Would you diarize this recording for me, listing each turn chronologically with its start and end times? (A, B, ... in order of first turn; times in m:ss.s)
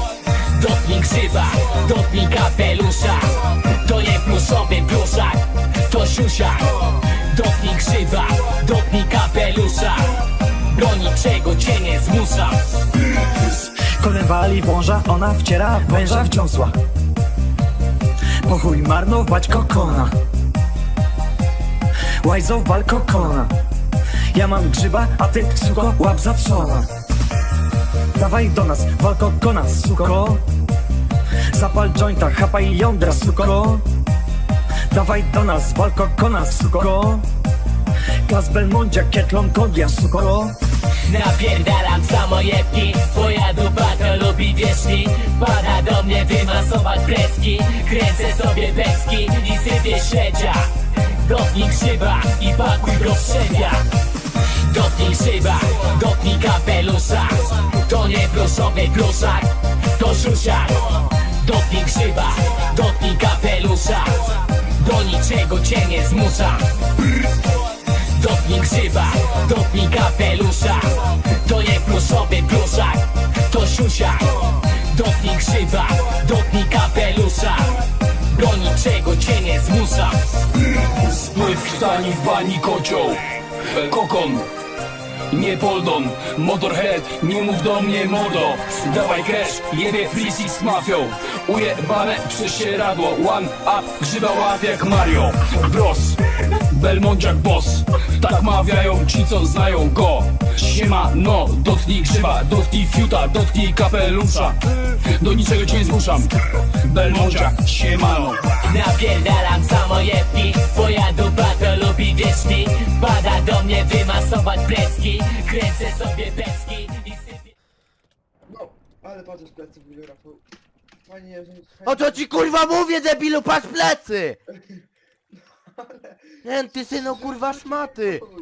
0:00.2-0:12.7 A
0:13.4-0:16.8 B
0:18.4-0:20.1 B
0:22.2-0:23.5 B
0:24.3-0:26.9 B
0:28.1-0:30.5 B
0:31.5-0:33.9 B
0:34.9-0:37.3 B
0:38.2-0:40.6 B
0:41.0-0:53.9 A
0:54.4-1:06.8 A
1:07.8-1:20.3 A
1:20.8-1:24.5 C
1:25.3-1:48.5 C
1:48.6-1:57.5 A
1:58.5-2:00.4 D
2:01.1-2:02.3 D
2:01.8-2:04.4 E
2:06.4-2:08.2 E